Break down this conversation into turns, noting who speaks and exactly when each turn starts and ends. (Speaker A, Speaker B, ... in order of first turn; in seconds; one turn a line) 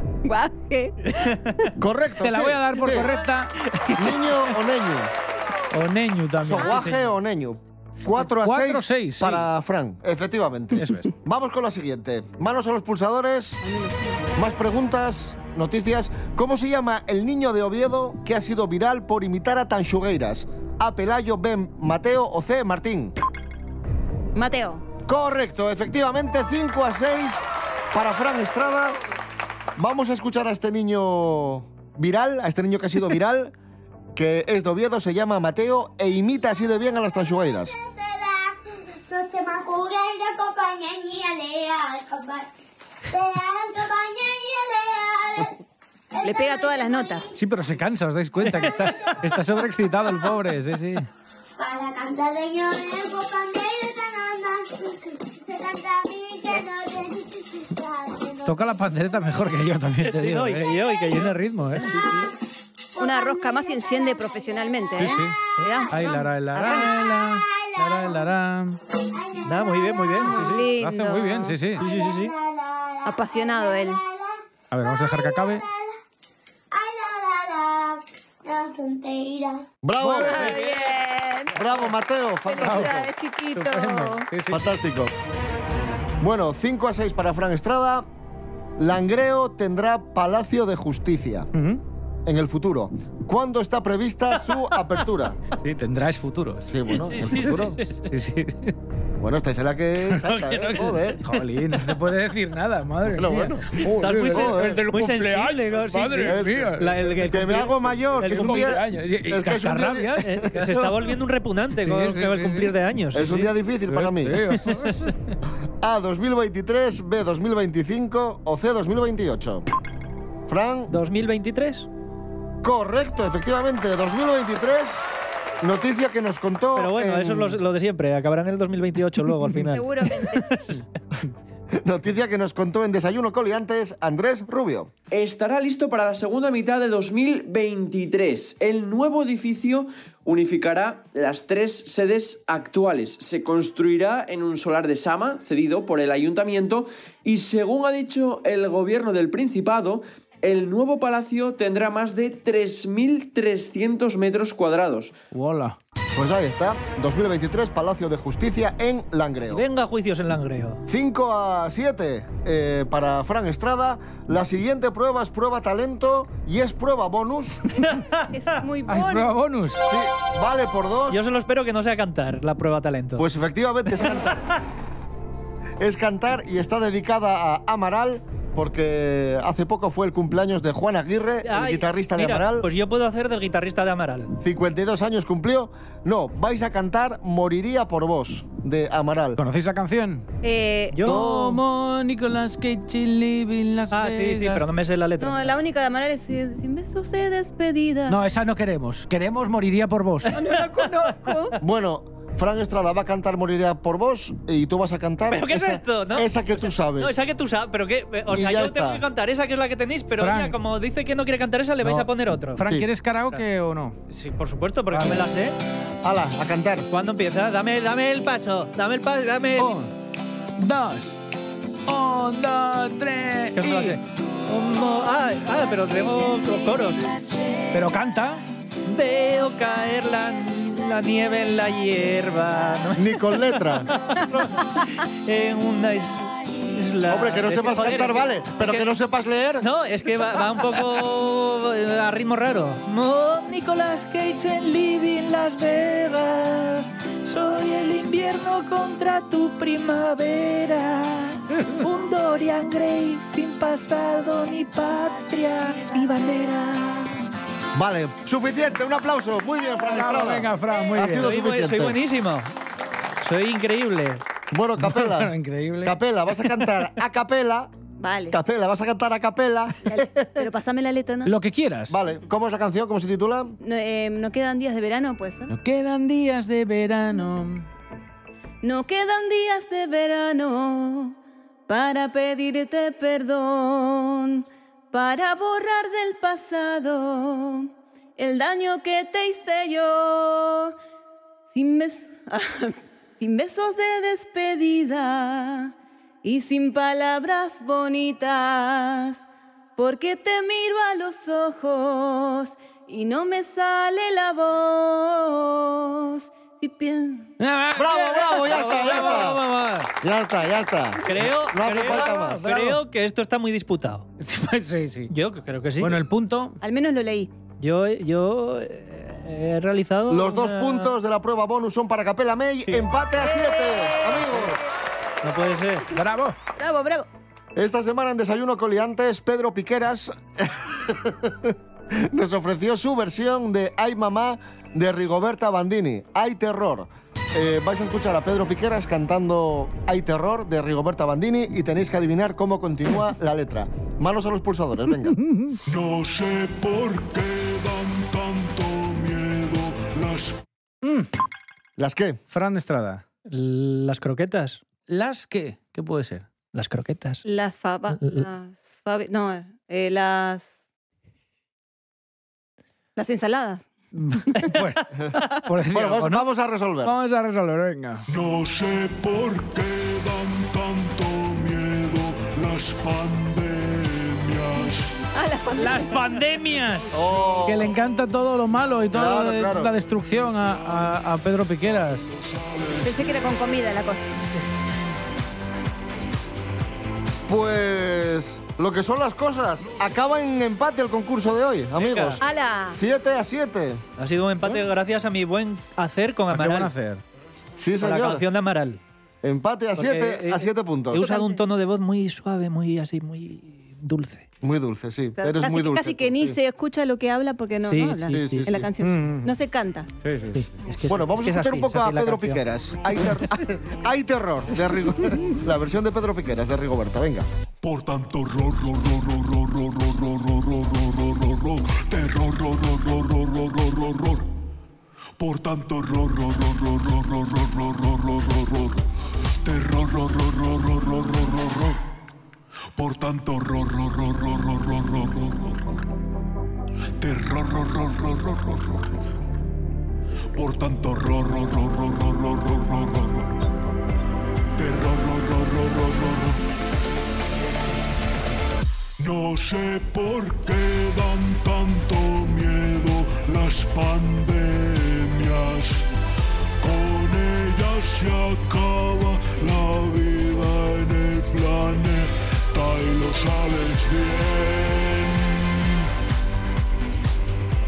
Speaker A: 0.2-1.5
Speaker B: 1.8-3.1
Speaker C: 2.2-3.5
Speaker D: 3.7-4.2
Speaker B: 4.0-5.1
Speaker C: 5.7-7.0
Speaker B: 6.4-13.6
Speaker A: 6.6-6.8
Speaker C: 8.2-9.4
Speaker C: 10.7-11.1
Speaker A: 13.6-14.2
Speaker B: 14.3-23.1
Speaker A: 24.3-24.9
Speaker B: 25.1-29.0
Speaker B: 29.8-33.5
Speaker B: 34.1-37.7
Speaker E: 37.1-42.5
Speaker E: 43.1-45.6
Speaker E: 46.1-47.4
Speaker A: 46.2-47.3
Speaker C: 47.3-51.1
Speaker D: 48.4-48.9
Speaker E: 48.9-49.2
Speaker E: 51.6-58.8
Speaker C: 58.4-61.9
Speaker D: 60.0-62.3
Speaker E: 63.0-65.2
Speaker A: 63.0-66.8
Speaker C: 65.0-65.3
Speaker C: 65.9-68.8
Speaker E: 66.8-68.3
Speaker E: 69.2-70.3
Speaker D: 69.4-70.7
Speaker A: 70.2-71.6
Speaker C: 70.5-71.8
Speaker E: 71.8-75.9
Speaker D: 71.8-72.3
Speaker A: 73.0-74.0
Speaker C: 74.7-75.6
Speaker E: 76.7-79.7
Speaker B: 79.8-80.6
Speaker A: 80.0-81.7
Speaker D: 80.4-80.7
Speaker B: 81.5-83.1
Speaker A: 82.4-84.3
Speaker C: 82.6-84.7
Speaker B: 84.5-85.1
Speaker B: 86.2-88.1
Speaker B: 88.8-91.5
Speaker C: 91.5-91.8
Speaker B: 92.2-95.4
Speaker C: 95.6-98.7
Speaker B: 96.7-97.8
Speaker D: 96.9-98.1
Speaker B: 99.2-101.3
Speaker C: 100.1-107.3
Speaker B: 103.0-104.8
Speaker D: 103.8-108.7
Speaker B: 106.2-106.7
Speaker B: 107.2-110.4
Speaker C: 108.2-111.1
Speaker D: 110.2-113.5
Speaker C: 111.8-112.7
Speaker B: 113.1-114.4
Speaker C: 113.9-115.1
Speaker D: 114.7-115.0
Speaker B: 115.8-119.6
Speaker B: 120.5-120.9
Speaker D: 120.9-121.9
Speaker B: 122.6-125.0
Speaker B: 125.6-127.6
Speaker D: 126.7-130.8
Speaker A: 129.6-130.5
Speaker B: 131.8-134.9
Speaker F: 135.1-155.1
Speaker C: 155.3-155.8
Speaker B: 156.1-159.6
Speaker D: 159.5-160.8
Speaker B: 160.9-167.7
Speaker D: 167.8-168.3
Speaker A: 168.3-169.3
Speaker C: 168.9-169.8
Speaker B: 169.8-171.2
Speaker D: 171.1-173.3
Speaker B: 173.2-174.6
Speaker B: 175.8-182.7
Speaker D: 181.4-184.3
Speaker B: 184.4-189.4
Speaker C: 189.3-190.2
Speaker A: 190.4-191.0
Speaker D: 190.9-191.2
Speaker B: 191.0-191.6
Speaker C: 191.0-194.7
Speaker D: 193.9-195.5
Speaker A: 195.2-198.2
Speaker C: 198.1-200.4
Speaker A: 200.3-201.6
Speaker B: 201.6-207.1
Speaker D: 205.3-206.3
Speaker D: 206.9-212.6
Speaker B: 208.3-209.0
Speaker C: 210.2-210.6
Speaker C: 211.8-213.9
Speaker D: 214.1-215.5
Speaker C: 214.9-215.2
Speaker B: 216.0-216.9
Speaker D: 216.9-219.8
Speaker C: 219.6-219.9
Speaker C: 220.6-221.2
Speaker C: 221.9-224.0
Speaker D: 223.5-227.1
Speaker C: 227.7-228.4
Speaker D: 228.8-238.9
Speaker B: 232.9-233.9
Speaker B: 237.1-239.7
Speaker D: 239.6-257.2
Speaker B: 257.7-262.0
Speaker C: 259.8-261.3
Speaker D: 261.1-262.5
Speaker D: 263.2-264.2
Speaker B: 264.5-267.7
Speaker C: 264.8-265.9
Speaker A: 268.0-268.4
Speaker B: 268.3-270.5
Speaker A: 269.9-271.3
Speaker C: 271.2-271.9
Speaker B: 271.9-273.6
Speaker A: 273.6-275.5
Speaker C: 275.5-277.6
Speaker A: 278.6-281.1
Speaker A: 281.7-290.7
Speaker A: 291.5-295.7
Speaker A: 296.2-299.2
Speaker A: 299.8-307.3
Speaker C: 307.4-309.2
Speaker B: 307.7-309.4
Speaker D: 308.0-309.9
Speaker B: 310.0-312.4
Speaker D: 311.0-314.1
Speaker C: 311.8-312.8
Speaker C: 314.2-315.1
Speaker D: 315.1-316.0
Speaker C: 315.8-316.6
Speaker A: 316.6-317.3
Speaker D: 317.6-320.9
Speaker B: 320.1-324.6
Speaker A: 323.2-324.6
Speaker D: 325.2-325.9
Speaker C: 325.9-326.4
Speaker A: 326.5-327.1
Speaker B: 327.5-345.2
Speaker C: 345.2-345.6
Speaker G: 345.6-350.4
Speaker C: 350.8-351.1
Speaker B: 351.8-352.2
Speaker C: 352.3-353.0
Speaker D: 353.3-354.6
Speaker C: 354.9-356.2
Speaker D: 356.5-357.2
Speaker A: 357.2-360.5
Speaker A: 362.9-363.7
Speaker C: 363.9-366.2
Speaker D: 364.3-364.6
Speaker B: 365.7-366.9
Speaker C: 366.8-368.0
Speaker G: 368.1-375.0
Speaker A: 375.1-376.3
Speaker C: 375.6-382.1
Speaker G: 376.5-377.4
Speaker B: 376.9-377.7
Speaker B: 378.9-379.7
Speaker G: 382.2-383.2
Speaker A: 382.8-384.2
Speaker B: 387.3-393.8
Speaker D: 391.8-392.2
Speaker A: 392.2-392.8
Speaker D: 394.0-396.7
Speaker C: 396.3-397.0
Speaker B: 397.6-398.2
Speaker D: 397.8-398.8
Speaker B: 399.2-401.1
Speaker D: 399.8-404.2
Speaker A: 400.9-401.4
Speaker B: 404.4-406.4
Speaker A: 405.2-409.9
Speaker D: 407.7-408.5
Speaker B: 408.1-408.7
Speaker C: 408.8-409.3
Speaker C: 410.0-410.5
Speaker D: 410.3-412.4
Speaker B: 410.9-417.3
Speaker G: 417.6-424.3
Speaker G: 425.2-428.9
Speaker G: 429.4-431.8
Speaker G: 432.8-435.8
Speaker G: 437.0-439.0
Speaker G: 440.3-443.4
Speaker G: 444.6-446.4
Speaker G: 449.0-455.9
Speaker G: 456.6-465.9